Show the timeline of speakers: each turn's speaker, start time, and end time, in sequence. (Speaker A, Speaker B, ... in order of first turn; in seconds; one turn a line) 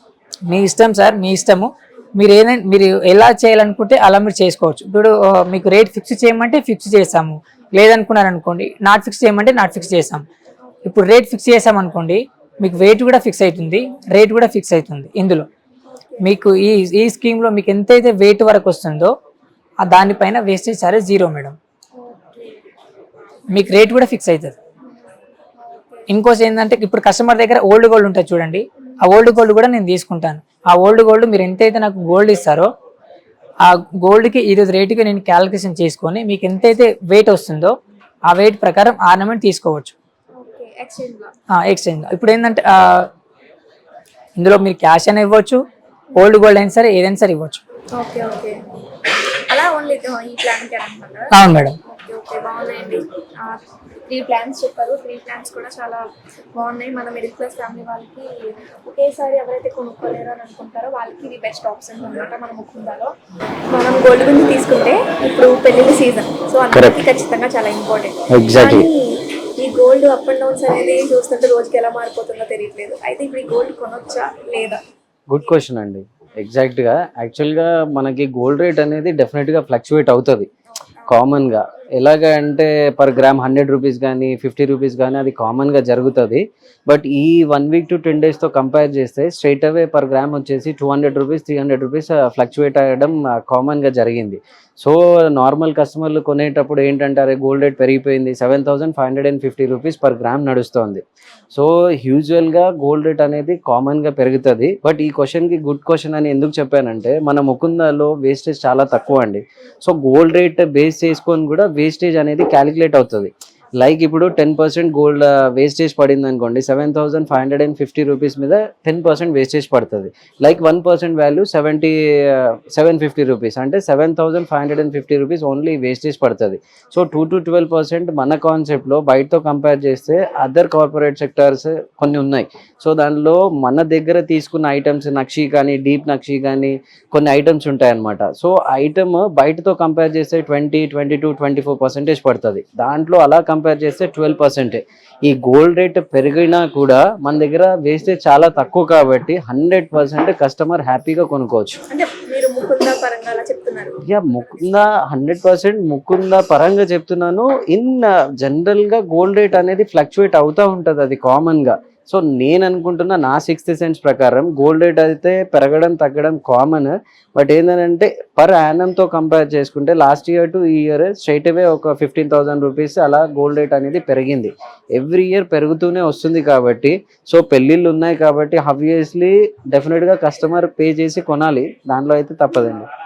Speaker A: 0.5-10.2
Speaker B: 10.6-11.0
Speaker A: 10.8-15.5
Speaker B: 15.9-16.3
Speaker A: 16.2-19.1
Speaker A: 19.8-21.6
Speaker B: 22.0-22.6
Speaker A: 23.5-24.6
Speaker B: 24.8-26.1
Speaker A: 26.1-32.7
Speaker A: 33.6-37.7
Speaker A: 38.3-39.9
Speaker B: 40.4-41.3
Speaker A: 41.5-43.1
Speaker A: 44.4-45.6
Speaker A: 46.1-47.6
Speaker B: 48.0-48.5
Speaker B: 49.5-51.3
Speaker A: 51.3-51.8
Speaker B: 51.9-56.0
Speaker B: 56.5-58.3
Speaker B: 58.9-63.1
Speaker B: 63.7-74.8
Speaker C: 66.7-67.0
Speaker C: 68.3-68.9
Speaker C: 75.3-80.5
Speaker B: 80.8-81.2
Speaker C: 81.1-151.8
Speaker B: 151.9-154.0
Speaker C: 154.1-182.9